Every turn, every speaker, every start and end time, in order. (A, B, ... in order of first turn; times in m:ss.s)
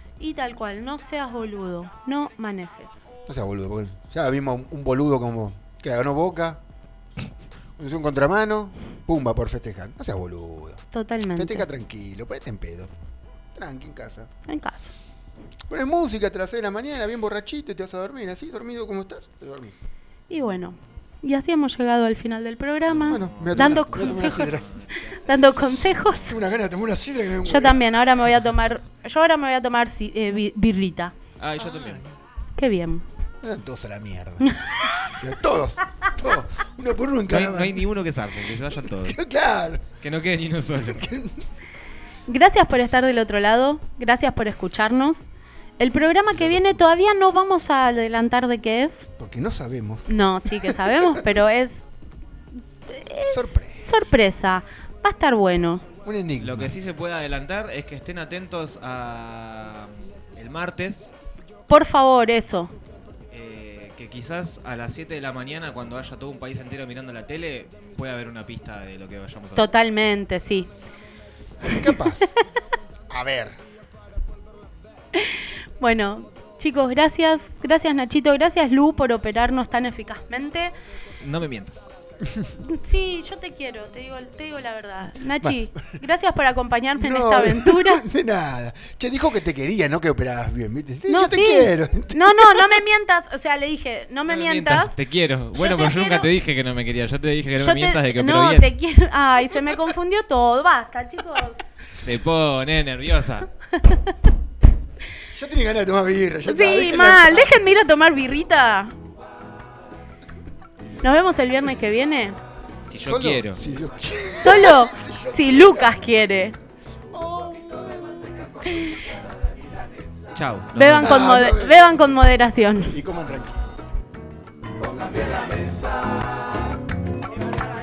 0:00.2-0:02.9 A
0:03.3-0:06.6 B
0:07.8-0:12.9 B
0:10.9-0:11.7 A
0:13.5-0:14.3 B
0:14.5-0:14.9 A
0:15.7-0:19.8 B
0:20.3-0:26.3 A
0:22.9-0:26.6 C
0:23.0-0:24.7 B
0:26.2-0:27.9 B
0:27.4-0:31.2 A
0:31.4-0:32.0 C
0:31.6-0:32.1 B
0:32.6-0:33.1 A
0:33.4-0:34.5 B
0:34.4-0:35.0 A
0:35.1-0:37.8 B
0:37.3-0:39.2 C
0:38.8-0:39.9 B
0:40.0-0:41.1 C
0:40.9-0:41.4 B
0:42.3-0:45.3 A
0:45.8-0:49.1 A
0:46.3-0:46.8 B
0:49.2-0:51.2 B
0:50.1-0:51.9 A
0:52.9-0:55.8 A
0:53.3-0:54.1 B
0:56.0-0:56.7 B
0:56.4-1:01.1 C
1:01.7-1:02.7 A
1:03.3-1:09.7 C
1:09.6-1:10.7 A
1:11.7-1:12.3 B
1:13.1-1:13.6 B
1:15.2-1:20.7 A
1:21.2-1:21.9 C
1:22.6-1:28.0 A
1:25.4-1:25.8 B
1:27.0-1:32.8 B
1:31.1-1:35.0 A
1:34.3-1:38.7 C
1:35.6-1:36.3 A
1:37.6-1:41.6 A
1:41.9-1:43.5 C
1:43.8-1:44.1 A
1:45.3-1:47.6 B
1:46.5-1:49.0 A
1:51.0-1:52.4 A
1:52.9-1:53.6 C
1:52.9-1:56.0 B
1:54.4-1:56.6 A
1:57.1-1:57.6 B
1:57.6-1:58.6 D
1:58.7-1:59.0 A
2:00.3-2:01.3 C
2:00.7-2:03.0 A
2:01.0-2:02.0 B
2:02.9-2:03.8 B
2:04.8-2:06.7 D